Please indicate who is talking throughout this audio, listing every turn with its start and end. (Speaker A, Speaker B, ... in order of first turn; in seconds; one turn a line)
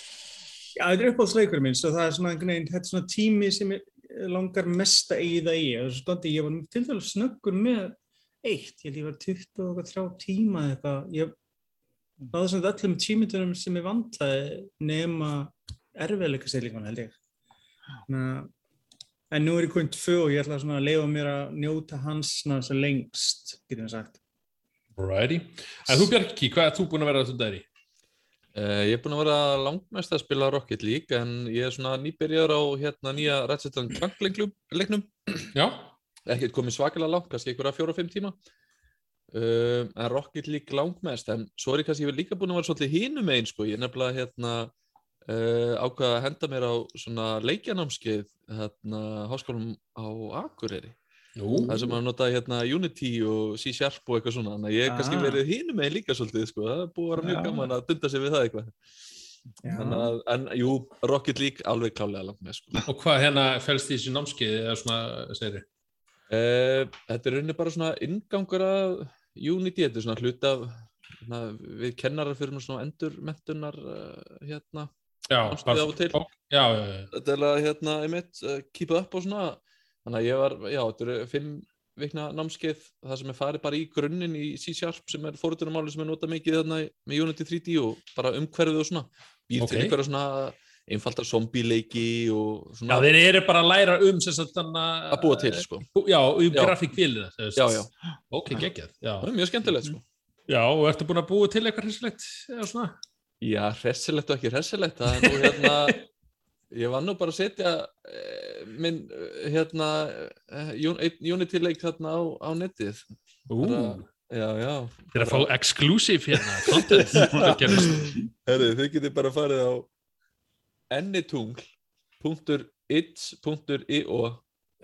Speaker A: 0.8-11.3
Speaker A: 12.3-17.1
Speaker A: 18.1-18.5
Speaker A: 19.3-24.2
Speaker B: 25.0-27.6
Speaker C: 28.5-35.5
Speaker B: 35.5-35.9
Speaker C: 36.2-38.4
Speaker C: 39.3-44.7
Speaker C: 45.3-51.0
Speaker B: 51.4-51.7
Speaker C: 51.7-58.7
Speaker A: 54.8-55.4
Speaker A: 57.2-57.7
Speaker A: 59.6-60.1
Speaker C: 59.7-62.8
Speaker B: 62.9-65.7
Speaker C: 66.3-74.9
Speaker B: 75.3-77.1
Speaker C: 75.4-76.2
Speaker C: 77.1-93.1
Speaker B: 89.6-89.9
Speaker B: 92.9-99.3
Speaker C: 95.1-95.9
Speaker C: 97.5-97.9
Speaker C: 99.2-100.0
Speaker B: 100.5-102.9
Speaker C: 103.4-106.0
Speaker B: 105.2-106.0
Speaker C: 106.7-113.0
Speaker B: 113.5-114.0
Speaker C: 113.6-115.5
Speaker B: 115.1-118.2
Speaker C: 116.7-119.9
Speaker C: 120.9-121.6
Speaker C: 122.2-124.4